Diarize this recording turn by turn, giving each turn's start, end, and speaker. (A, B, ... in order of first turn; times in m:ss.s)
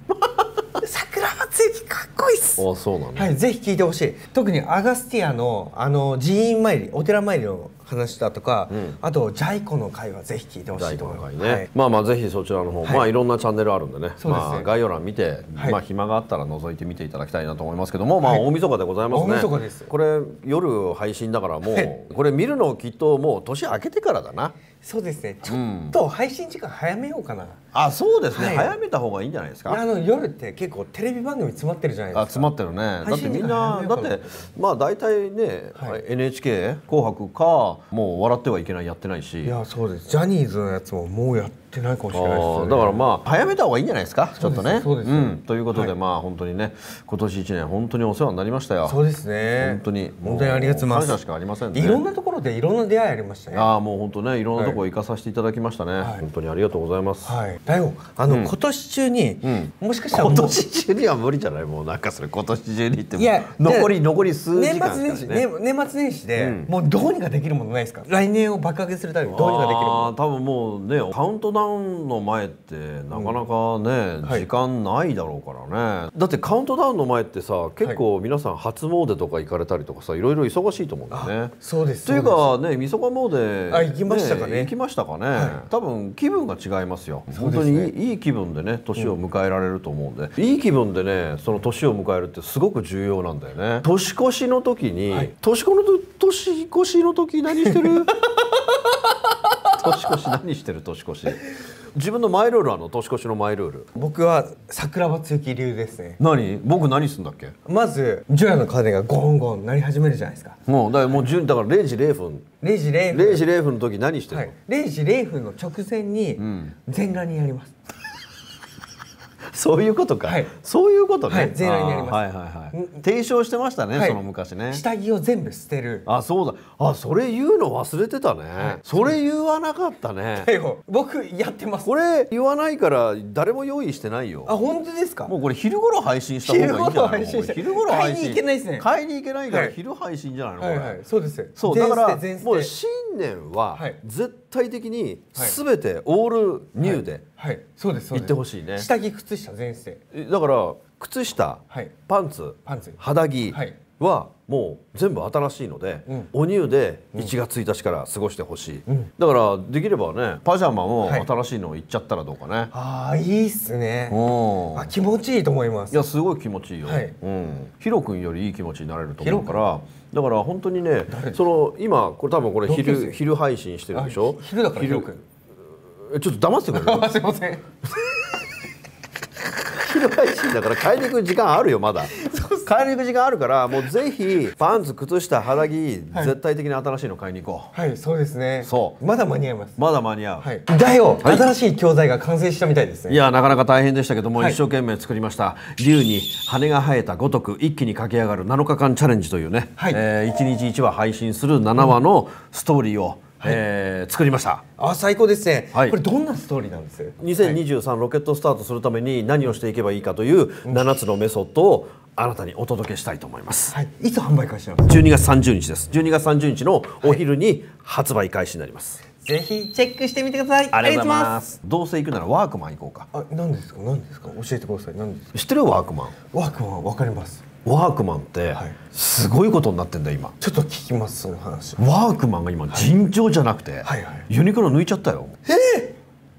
0:00.8-0:02.6 A
0:02.6-0:03.3 B
0:03.2-0:11.7 A
0:08.7-0:09.0 B
0:10.7-0:24.6 B
0:14.2-0:14.7 A
0:19.1-0:19.9 A
0:21.7-0:21.9 A
0:24.8-0:27.6 A
0:25.5-0:26.0 B
0:27.7-0:29.8 B
0:28.3-0:28.8 A
0:29.7-0:32.5 A
0:32.1-0:39.6 B
0:33.0-0:34.3 A
0:39.4-0:43.0 A
0:42.1-0:49.0 B
0:44.4-0:45.9 A
0:48.8-0:51.2 A
0:49.6-0:52.0 B
0:51.7-0:53.7 A
0:53.5-0:57.3 B
0:54.6-0:54.8 A
0:57.2-1:00.8 A
0:59.4-1:05.4 B
1:03.2-1:04.0 A
1:04.5-1:10.1 A
1:06.4-1:06.7 B
1:09.3-1:38.2 B
1:13.1-1:13.4 A
1:21.1-1:22.5 A
1:23.7-1:24.8 A
1:25.3-1:25.6 A
1:27.3-1:27.9 A
1:37.6-1:40.2 A
1:39.7-1:43.9 B
1:44.0-1:46.2 A
1:46.2-1:47.6 B
1:47.6-1:51.2 A
1:50.7-1:52.5 B
1:52.6-1:53.4 A
1:53.1-1:54.5 B
1:54.3-1:57.8 A
1:56.4-1:56.8 B
1:59.5-2:04.8 B
2:00.2-2:00.5 A
2:01.3-2:03.0 A
2:03.9-2:06.0 A
2:06.1-2:10.5 B
2:08.6-2:09.2 A
2:10.4-2:11.9 A
2:11.8-2:14.5 B
2:14.5-2:15.3 A
2:15.3-2:21.0 B
2:16.4-2:18.9 A
2:19.5-2:19.8 A
2:20.6-2:22.8 A
2:21.6-2:27.2 B
2:26.8-2:30.0 A
2:28.1-2:28.9 B
2:30.1-2:42.7 B
2:32.7-2:33.8 A
2:42.7-2:44.2 A
2:44.1-2:44.9 B
2:44.8-2:46.0 A
2:45.9-2:55.1 B
2:46.9-2:47.2 A
2:49.2-2:49.6 A
2:51.1-2:51.4 A
2:52.6-2:53.2 A
2:53.9-2:55.2 A
2:56.1-2:57.1 B
2:56.7-2:57.6 A
2:59.7-3:07.7 B
3:02.1-3:02.7 A
3:07.7-3:09.8 A
3:08.6-3:09.0 B
3:09.8-3:10.5 B
3:10.4-3:13.2 A
3:13.1-3:24.7 B
3:24.8-3:27.6 A
3:27.2-3:33.8 B
3:33.7-3:34.9 A
3:34.8-3:39.0 B
3:39.2-3:41.4 A
3:40.7-3:43.1 B
3:43.1-3:45.3 A
3:45.3-3:46.2 B
3:46.3-3:47.4 A
3:47.6-3:50.4 B
3:50.4-3:51.8 A
3:51.8-3:55.4 B
3:53.8-3:54.3 A
3:55.5-3:56.0 A